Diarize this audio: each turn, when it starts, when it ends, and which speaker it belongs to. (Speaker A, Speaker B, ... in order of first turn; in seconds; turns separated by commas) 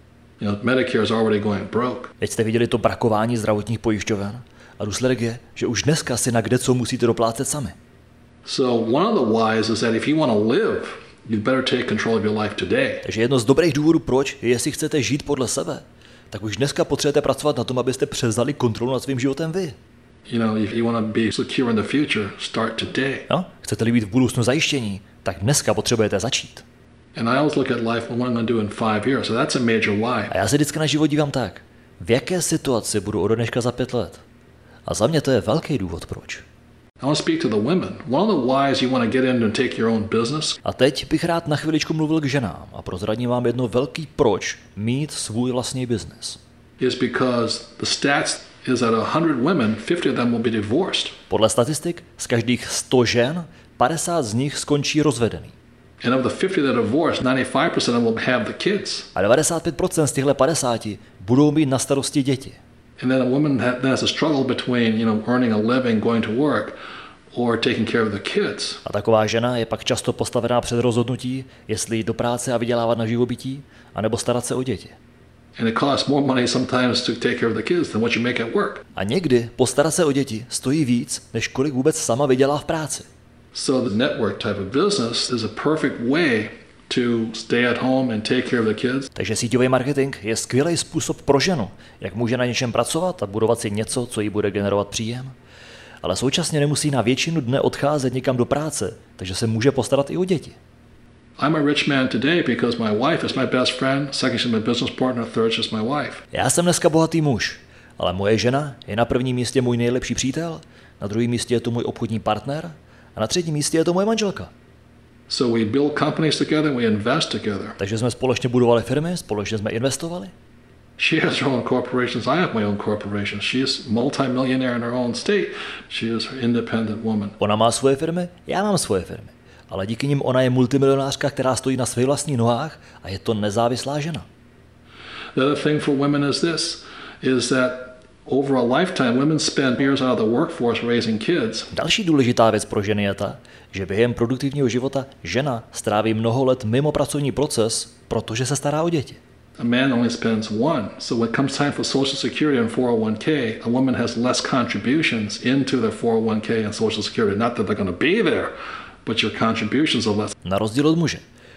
Speaker A: 0.4-2.1, Speaker B: 2.2-7.8, Speaker A: 8.4-13.0, Speaker B: 13.0-19.8, Speaker A: 20.3-23.3, Speaker B: 23.3-26.6, Speaker A: 27.1-30.3, Speaker B: 30.3-34.2, Speaker B: 34.9-36.4, Speaker A: 37.0-40.6, Speaker B: 40.6-46.4, Speaker A: 46.8-51.2, Speaker B: 51.3-55.5, Speaker A: 56.0-59.1, Speaker B: 59.1-62.6, Speaker A: 63.0-66.8, Speaker A: 67.3-68.8, Speaker B: 68.8-75.0, Speaker A: 75.5-78.8, Speaker B: 78.9-83.1, Speaker A: 83.5-89.1, Speaker B: 89.2-95.3, Speaker B: 96.0-100.6, Speaker A: 101.4-106.2, Speaker B: 106.3-114.5, Speaker A: 115.3-117.8, Speaker B: 117.8-120.3, Speaker A: 121.0-127.3, Speaker B: 127.4-134.2, Speaker A: 135.3-141.7, Speaker B: 141.7-149.2, Speaker A: 149.6-158.5, Speaker A: 159.0-160.3, Speaker B: 160.4-161.2